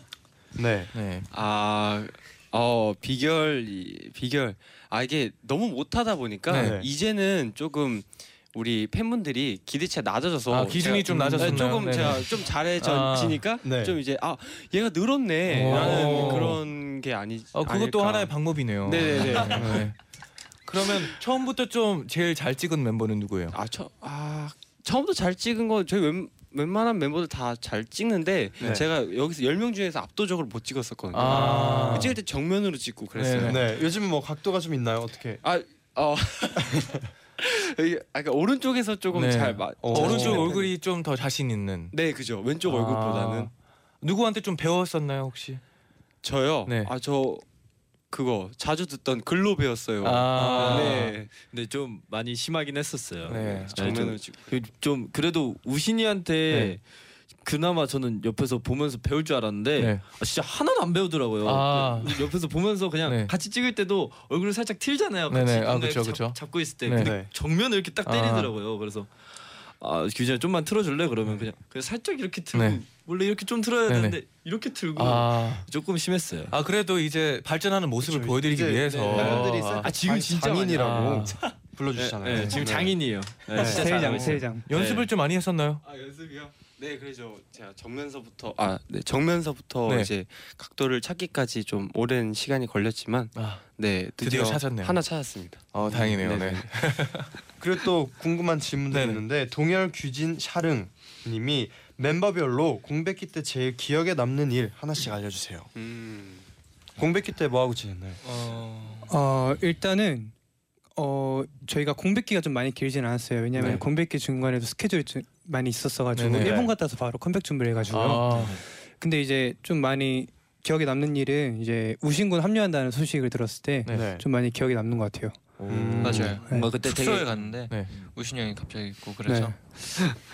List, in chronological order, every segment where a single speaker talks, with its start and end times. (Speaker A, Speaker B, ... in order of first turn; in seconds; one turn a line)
Speaker A: 0.6-0.9
Speaker B: 0.9-1.3
Speaker C: 1.3-19.9
Speaker B: 6.5-6.8
Speaker A: 6.5-6.9
Speaker B: 10.5-13.5
Speaker A: 13.6-14.0
Speaker B: 15.5-16.6
Speaker A: 15.7-16.5
Speaker B: 17.5-20.0
Speaker A: 19.6-19.8
Speaker B: 20.6-23.6
Speaker C: 23.5-33.7
Speaker A: 28.6-28.9
Speaker B: 31.1-32.2
Speaker A: 31.3-32.1
Speaker B: 33.2-33.7
Speaker A: 33.4-35.4
Speaker C: 35.4-40.7
Speaker B: 39.1-41.9
Speaker A: 39.8-40.6
Speaker C: 41.9-43.5
Speaker B: 42.6-45.6
Speaker C: 46.2-47.5
Speaker B: 46.7-46.9
Speaker C: 48.1-51.3
Speaker B: 50.0-51.2
Speaker D: 50.5-56.8
Speaker B: 53.3-54.1
Speaker C: 53.7-54.5
Speaker B: 56.5-56.8
Speaker D: 57.4-69.1
Speaker B: 59.8-60.0
Speaker B: 61.4-62.3
Speaker B: 63.0-63.3
Speaker B: 65.3-67.2
Speaker A: 67.0-67.3
Speaker B: 68.0-68.5
Speaker D: 69.8-76.5
Speaker B: 72.5-72.8
Speaker B: 73.9-74.2
Speaker B: 74.9-75.7
Speaker B: 76.5-80.0
Speaker A: 78.0-84.2
Speaker C: 79.1-79.5
Speaker D: 79.8-85.1
Speaker B: 80.7-81.4
Speaker E: 83.6-84.7
Speaker B: 84.0-85.8
Speaker C: 85.8-96.7
Speaker B: 89.8-90.1
Speaker B: 93.3-93.7
Speaker B: 94.2-95.0
Speaker B: 95.7-97.3
Speaker A: 97.6-105.7
Speaker B: 98.9-99.2
Speaker C: 105.8-106.5
Speaker A: 107.0-108.2
Speaker F: 108.4-109.0
Speaker E: 109.1-110.3
Speaker E: 111.0-125.5
Speaker A: 113.6-113.8
Speaker B: 116.1-116.7
Speaker A: 116.4-116.6
Speaker B: 117.9-118.6
Speaker D: 118.3-118.6
Speaker A: 123.9-124.2
Speaker D: 125.6-128.0
Speaker B: 125.7-126.1
Speaker A: 125.7-126.4
Speaker F: 126.0-130.1
Speaker E: 126.5-126.7
Speaker E: 129.3-129.5